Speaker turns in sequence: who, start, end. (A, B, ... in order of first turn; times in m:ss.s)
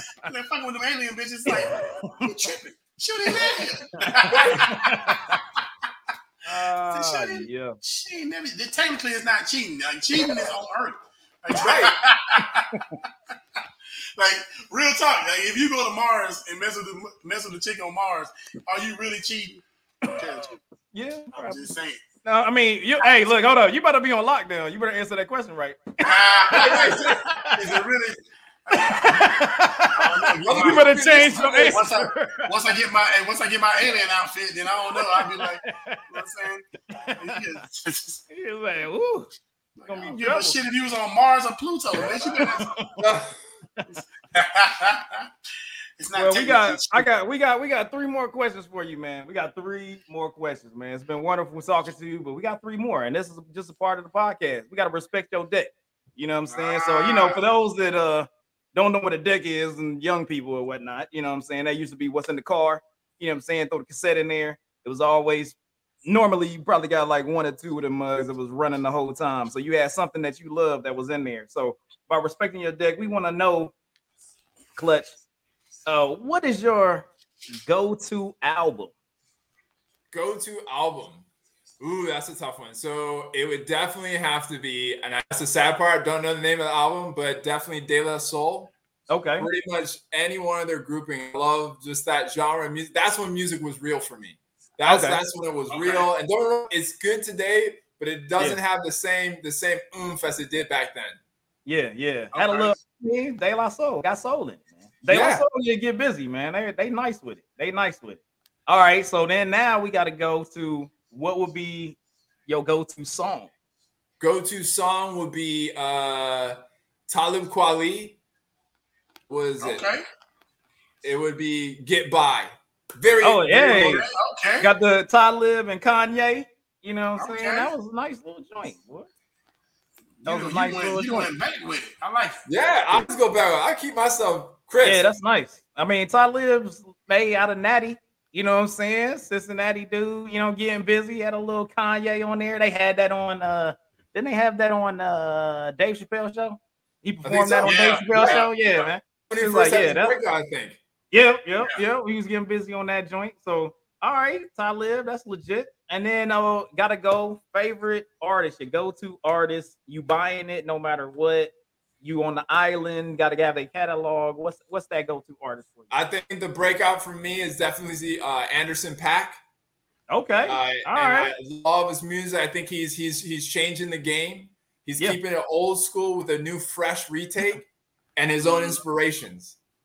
0:00.3-0:05.6 A
0:01.5-0:02.3 B
0:03.3-0:05.4 B
0:04.3-0:04.8 C
0:06.4-0:07.8 B
0:06.9-0:12.7 A
0:11.6-0:12.0 C
0:12.7-0:13.0 B
0:14.2-0:20.6 A
0:20.9-0:21.7 B
0:21.4-0:22.0 A
0:22.2-0:27.7 B
0:26.0-0:38.2 A
0:26.5-0:27.2 C
0:28.8-0:32.5 B
0:30.4-0:31.8 C
0:35.0-0:36.0 B
0:36.9-0:37.4 B
0:38.3-0:39.3 B
0:39.8-0:42.8 A
0:39.9-0:40.6 B
0:42.1-0:43.1 B
0:43.0-0:43.4 C
0:43.8-0:44.0 B
0:44.3-0:45.3 A
0:46.0-0:47.1 A
0:46.1-1:13.7 B
0:56.5-0:57.4 A
1:14.8-1:15.2 B
1:15.9-1:17.1 B
1:17.6-1:18.9 B
1:20.1-1:21.3 C
1:21.8-1:28.7 C
1:29.1-1:29.5 B
1:29.4-1:41.2 C
1:34.8-1:35.2 B
1:35.7-1:36.1 A
1:41.6-1:53.5 B
1:42.3-1:42.8 A
1:45.1-1:45.4 C
1:54.2-1:58.2 C
1:59.3-1:59.9 C
1:59.6-2:00.0 A
2:01.0-2:04.0 C
2:03.2-2:04.1 B
2:03.8-2:04.7 A
2:04.6-2:09.1 B
2:07.2-2:07.7 A
2:10.2-2:12.4 A
2:10.2-2:11.3 B
2:12.5-2:15.1 C
2:14.8-2:30.1 B
2:27.2-2:28.5 C
2:27.6-2:28.9 A
2:29.3-2:30.8 C
2:31.1-2:45.9 B
2:45.9-2:49.4 C
2:50.1-2:51.3 B
2:50.5-2:59.6 C
2:58.4-2:58.8 A